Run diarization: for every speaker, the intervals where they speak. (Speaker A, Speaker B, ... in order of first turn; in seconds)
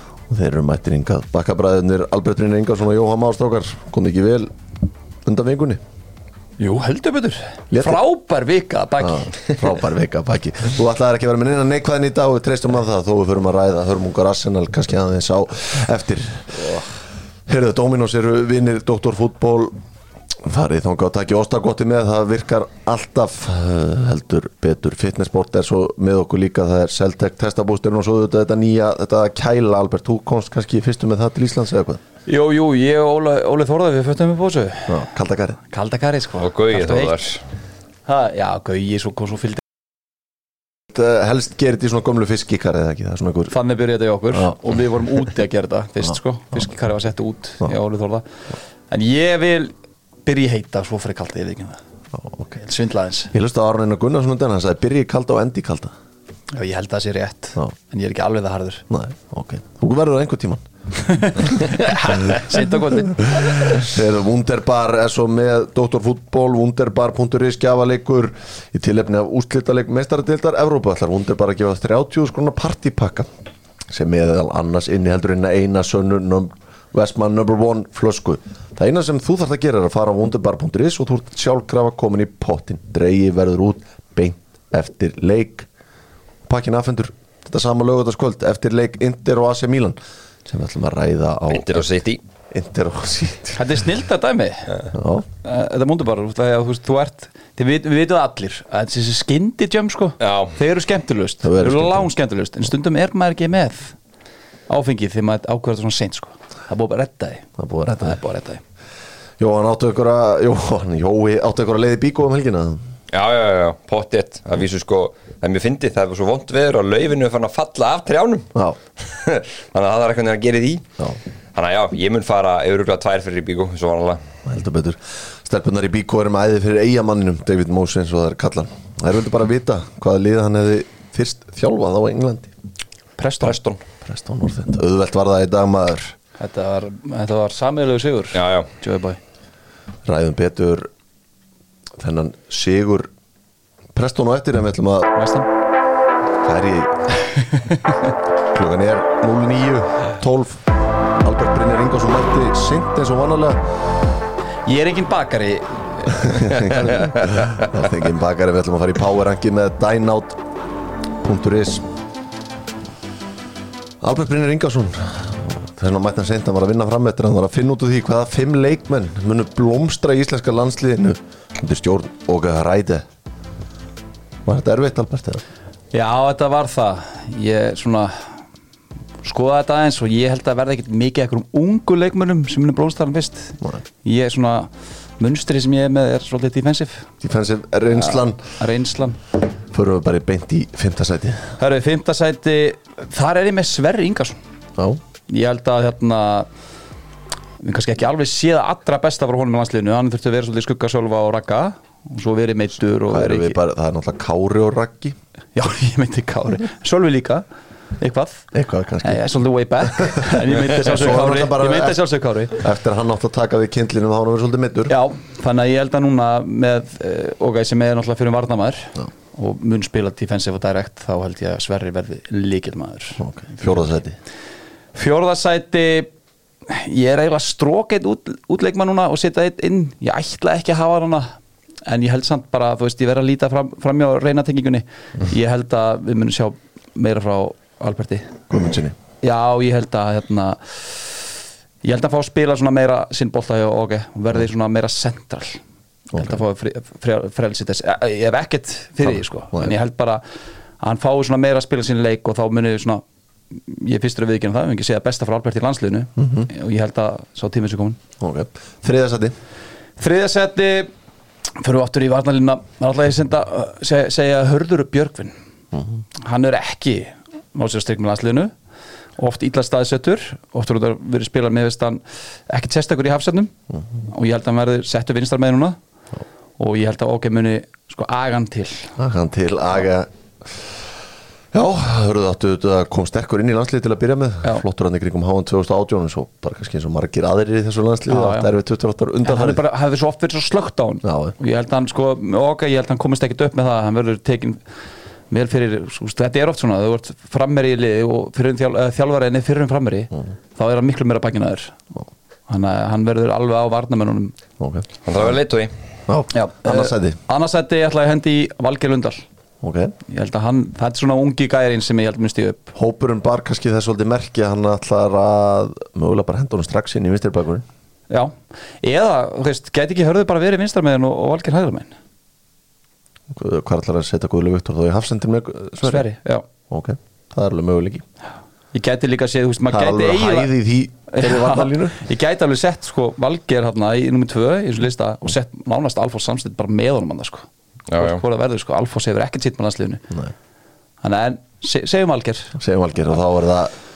Speaker A: 0.3-4.5, 5.2-5.8, 7.7-8.0, 9.0-16.8, 17.5-19.8, 20.4-32.0, 34.9-35.6, 40.9-43.5, 52.2-52.6, 53.3-55.9, 58.9-60.6, 63.1-73.3, 73.9-85.7, 86.5-91.8, 92.5-93.7, 94.9-95.2, 101.4-102.1, 107.6-108.1, 109.4-112.8, 124.4-132.5, 134.0-136.2, 140.0-140.9, 142.0-143.1, 143.9-145.1, 146.4-147.0, 148.5-150.6, 151.2-153.6, 156.2-160.4, 161.2-161.8, 164.0-173.1, 174.4-175.4, 187.2-188.4, 189.7-191.6, 203.1-205.2, 208.5-209.2, 210.0-212.0, 212.6-214.9, 223.2-224.2, 238.5-238.9, 256.2-256.5, 258.2-259.3, 279.0-280.7, 281.5-289.6, 291.0-291.3, 304.6-305.4, 306.1-307.2, 309.6-309.9, 312.7-317.6, 323.3-326.0, 326.7-328.0, 329.7-332.0, 342.6-343.7
Speaker B: 6.6-9.6, 32.3-35.0, 35.7-37.2, 38.0-39.6, 43.5-48.3, 48.9-49.7, 50.2-51.8, 52.6-53.3, 56.5-58.8, 61.0-63.9, 93.5-94.8, 95.4-104.0, 104.7-108.6, 133.2-133.6, 136.4-139.2, 145.2-145.5, 147.5-147.9, 154.7-156.5, 175.9-178.3, 179.2-187.1, 187.9-189.2, 191.6-194.4, 195.3-196.5, 197.6-203.6, 205.5-207.4, 208.0-208.5, 209.0-212.6, 214.9-223.7, 224.9-226.1, 226.7-231.3, 231.8-238.4, 239.2-245.6, 246.1-250.2, 250.8-258.0, 260.0-260.9, 261.6-265.3, 266.2-268.5, 269.2-273.5, 274.0-275.8, 276.6-278.9, 288.1-288.5, 289.2-294.6, 295.3-301.8, 302.5-304.3, 306.3-309.2, 310.1-312.7, 318.1-321.9, 325.8-326.4, 328.7-330.5, 331.1-340.0, 341.0-342.6
Speaker C: 36.4-37.4, 91.5-92.2, 100.2-100.6, 113.1-120.8, 121.5-124.2, 133.4-133.8, 138.3-138.7, 156.5-157.8, 305.0-305.7, 337.9-338.2